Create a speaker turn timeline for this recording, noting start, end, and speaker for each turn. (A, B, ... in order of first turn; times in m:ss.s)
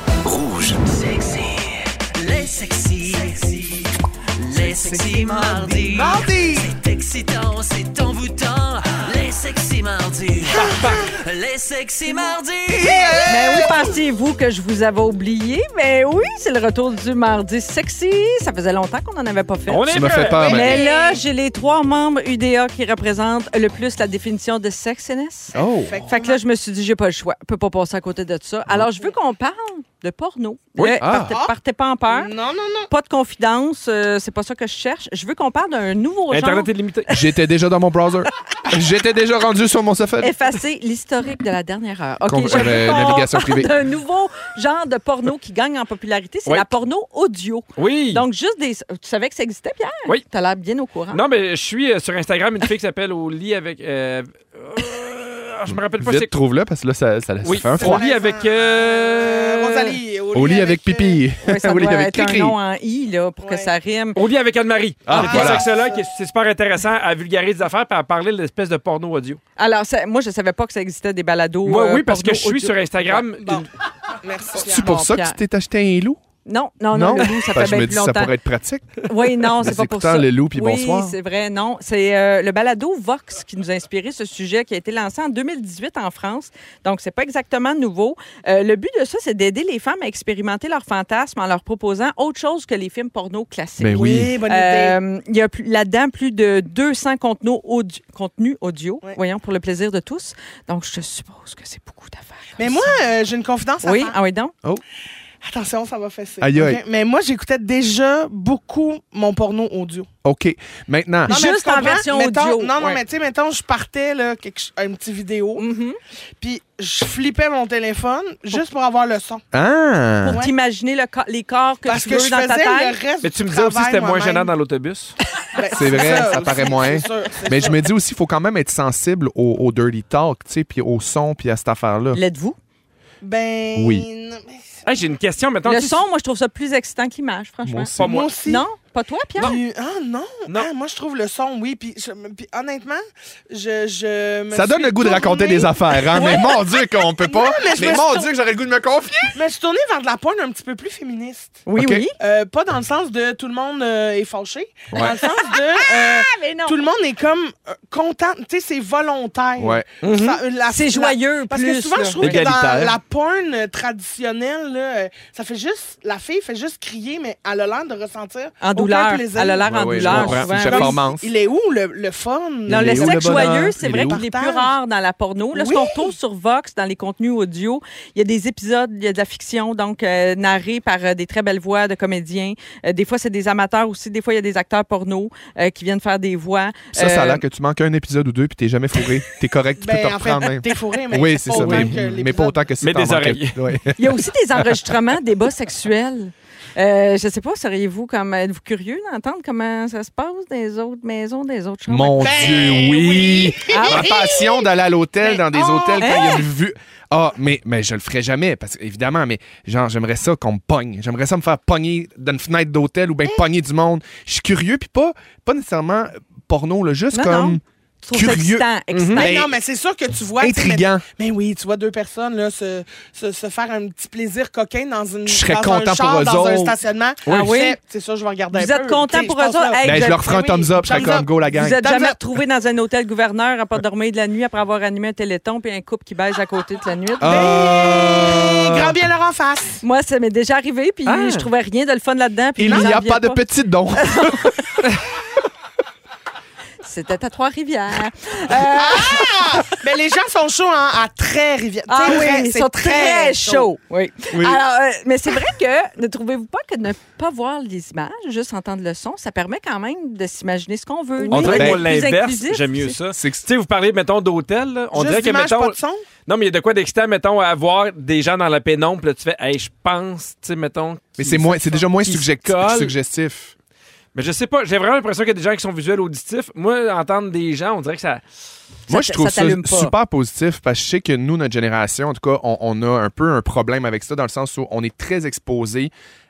0:00.2-0:13.3 A
0:05.2-0:06.7 B
0:10.5-0:11.1 B
0:12.8-0:13.9 B
0:13.3-0:25.6 C
0:19.7-0:20.5 D
0:19.9-0:20.8 E
0:20.2-0:21.2 B
0:25.5-0:26.0 E
0:25.6-0:26.4 B
0:26.1-0:32.3 C
0:30.8-0:31.1 D
0:31.0-0:31.3 E
0:31.3-0:31.6 B
0:32.1-0:32.9 B
0:32.9-0:36.7 C
0:36.3-0:37.1 D
0:37.1-0:40.3 E
0:40.2-0:51.2 C
0:42.3-0:43.7 E
0:47.8-0:48.2 D
0:51.1-0:56.4 D
0:55.7-0:58.0 E
0:57.4-1:00.0 D
0:57.8-1:01.2 B
1:00.3-1:02.6 E
1:01.4-1:04.2 C
1:03.4-1:03.7 B
1:04.2-1:09.4 D
1:05.1-1:05.7 E
1:05.2-1:06.0 B
1:09.6-1:13.2 C
1:11.7-1:13.7 D
1:14.2-1:14.9 B
1:14.6-1:16.2 E
1:14.7-1:15.4 C
1:16.4-1:18.3 C
1:16.9-1:21.2 E
1:19.0-1:43.0 C
1:33.8-1:34.4 E
1:34.0-1:35.0 B
1:42.6-1:44.2 B
1:43.8-1:44.5 C
1:45.4-1:50.1 B
1:46.4-1:46.8 E
1:50.2-1:51.4 E
1:51.3-1:53.0 C
1:51.3-1:55.6 B
1:55.6-1:56.0 C
1:56.4-1:59.4 B
1:59.5-2:00.4 E
2:00.2-2:03.0 C
2:01.8-2:04.5 B
2:03.2-2:05.2 D
2:05.5-2:07.8 B
2:05.7-2:12.2 E
2:12.1-2:12.6 C
2:13.2-2:14.6 B
2:13.8-2:14.1 E
2:14.8-2:16.0 D
2:15.7-2:19.5 C
2:17.6-2:18.2 E
2:18.0-2:18.3 D
2:18.0-2:18.6 B
2:19.4-2:26.6 B
2:24.5-2:29.4 E
2:27.2-2:28.3 B
2:29.3-2:31.6 B
2:31.7-2:32.1 C
2:31.8-2:32.0 E
2:32.2-2:54.8 B
2:34.9-2:35.2 E
2:35.0-2:36.8 C
2:39.6-2:39.8 E
2:40.0-2:40.4 D
2:40.7-2:42.5 C
2:42.2-2:43.0 D
2:48.6-2:51.0 C
2:49.6-2:51.3 E
2:50.2-2:50.5 D
2:52.7-2:54.2 E
2:52.7-3:07.4 C
2:55.5-2:56.1 B
3:07.0-3:14.2 E
3:09.8-3:12.6 B
3:11.6-3:11.9 D
3:12.8-3:13.6 D
3:14.0-3:22.4 C
3:21.9-3:37.6 E
3:22.2-3:24.6 B
3:23.7-3:24.1 C
3:25.2-3:26.4 B
3:26.0-3:26.4 C
3:37.1-3:39.4 C
3:38.1-3:39.5 E
3:38.9-3:39.2 D
3:39.2-3:52.2 B
3:40.4-3:41.0 E
3:45.3-3:47.5 E
3:47.3-3:47.8 C
3:48.5-3:50.3 C
3:49.8-3:51.8 E
3:51.5-3:57.6 C
3:57.2-3:59.0 E
3:57.2-3:59.8 B
3:59.8-4:03.4 C
4:01.1-4:01.5 E
4:02.6-4:04.9 E
4:04.0-4:04.8 C
4:06.8-4:09.7 C
4:08.7-4:13.7 B
4:11.9-4:23.0 C
4:14.3-4:14.6 E
4:21.2-4:21.6 B
4:21.3-4:25.8 D
4:21.3-4:21.8 E
4:23.1-4:23.4 E
4:24.9-4:26.0 B
4:26.3-4:32.9 D
4:31.2-4:33.5 E
4:34.2-4:38.2 D
4:38.9-4:45.9 E
4:38.9-4:39.9 C